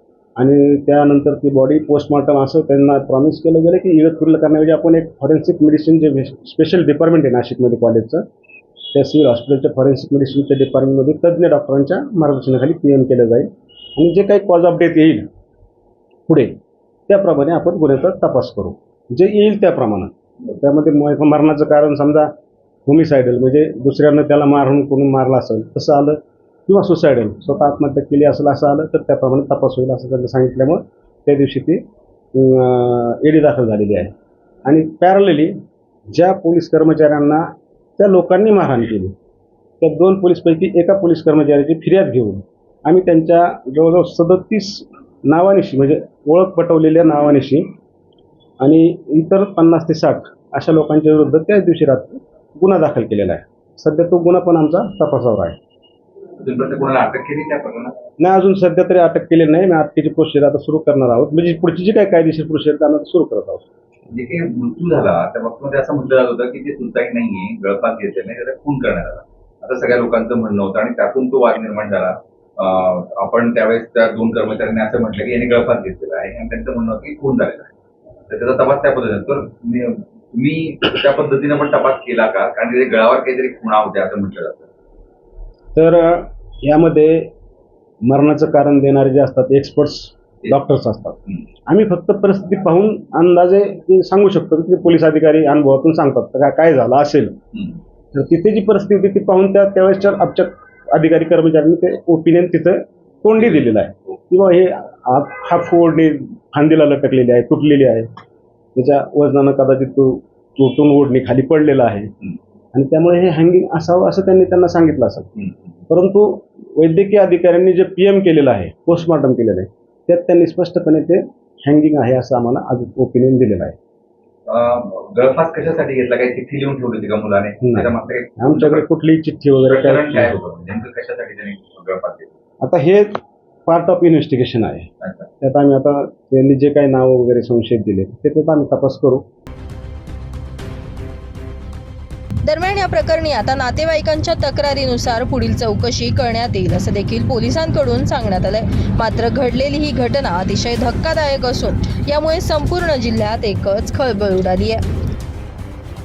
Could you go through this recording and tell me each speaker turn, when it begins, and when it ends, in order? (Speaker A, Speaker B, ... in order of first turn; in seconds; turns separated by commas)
Speaker A: 0.4-8.2, Speaker A: 8.9-15.3, Speaker A: 16.3-22.3, Speaker A: 22.9-34.1, Speaker A: 34.6-35.6, Speaker A: 36.1-37.4, Speaker A: 38.0-39.1, Speaker A: 39.8-47.7, Speaker A: 48.6-55.6, Speaker B: 56.4-58.0, Speaker A: 58.2-63.6, Speaker B: 64.1-77.7, Speaker B: 78.3-84.7, Speaker A: 85.7-87.3, Speaker A: 88.0-97.4, Speaker A: 98.1-108.1, Speaker A: 108.7-112.1, Speaker A: 112.7-115.3, Speaker A: 115.9-123.8, Speaker B: 124.5-128.8, Speaker A: 127.6-130.4, Speaker B: 129.7-132.3, Speaker A: 132.6-134.9, Speaker B: 135.0-135.3, Speaker A: 135.4-139.2, Speaker C: 142.4-154.8